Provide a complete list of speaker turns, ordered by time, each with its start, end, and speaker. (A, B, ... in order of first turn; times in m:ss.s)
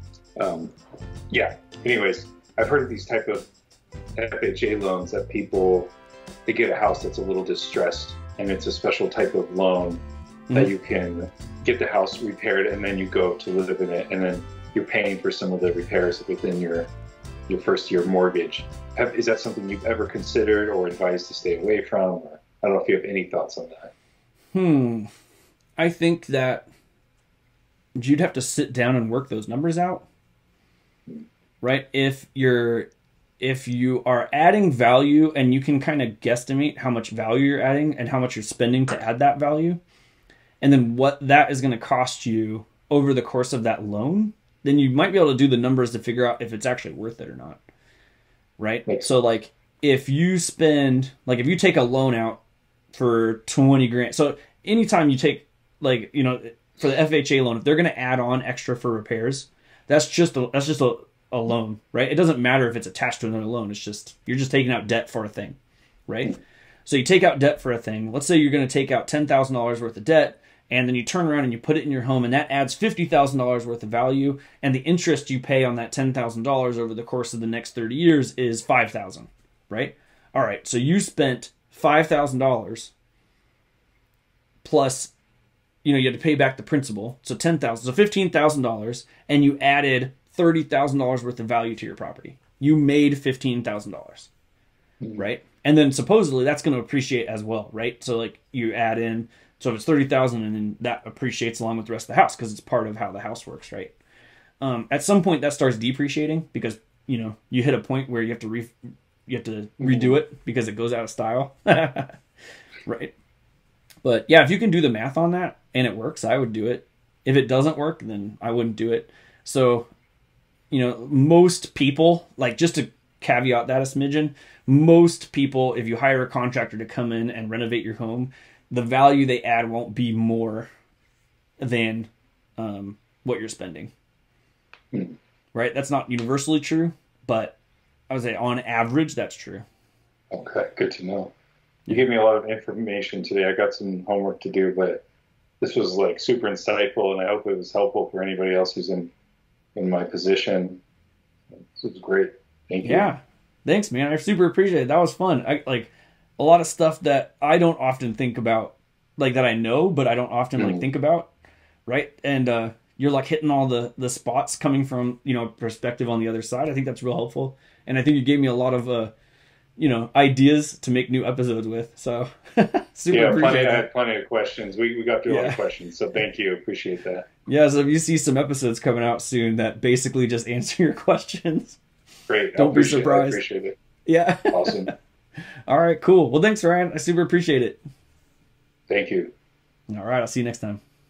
0:00.4-0:00.7 A
0:01.3-0:03.5 A
0:04.2-0:05.9 A
0:06.4-0:10.0 A
0:10.5-0:16.9 A
0:17.5-0:23.9 A
0:24.5-0:25.1 B
0:25.8-0:26.7 B
0:28.0-0:30.0 B
0:31.6-0:32.9 B
0:33.4-0:39.8 B
0:40.6-0:47.6 B
0:48.6-0:52.4 B
0:52.9-1:22.9 B
1:24.6-1:25.1 B
1:25.8-1:34.3 B
1:35.2-1:43.9 B
1:44.6-1:48.7 B
1:49.3-1:52.1 B
1:49.8-1:50.1 A
1:52.8-1:53.1 B
1:54.0-1:59.9 B
2:00.7-2:10.7 B
2:11.6-2:13.9 B
2:15.5-2:17.6 B
2:18.1-2:19.6 B
2:20.3-2:21.3 A
2:21.9-2:25.0 A
2:25.6-2:29.1 A
2:29.7-2:30.8 A
2:31.6-2:33.1 A
2:32.8-2:41.3 B
2:40.6-2:40.8 A
2:41.9-2:49.1 B
2:49.8-2:53.8 B
2:53.1-2:57.3 A
2:55.3-2:55.6 B
2:57.4-3:01.8 B
3:02.3-3:03.8 A
3:02.5-3:03.4 B
3:04.0-3:04.9 B
3:04.5-3:04.9 A
3:05.7-3:07.8 B
3:08.9-3:09.3 A
3:09.9-3:10.8 B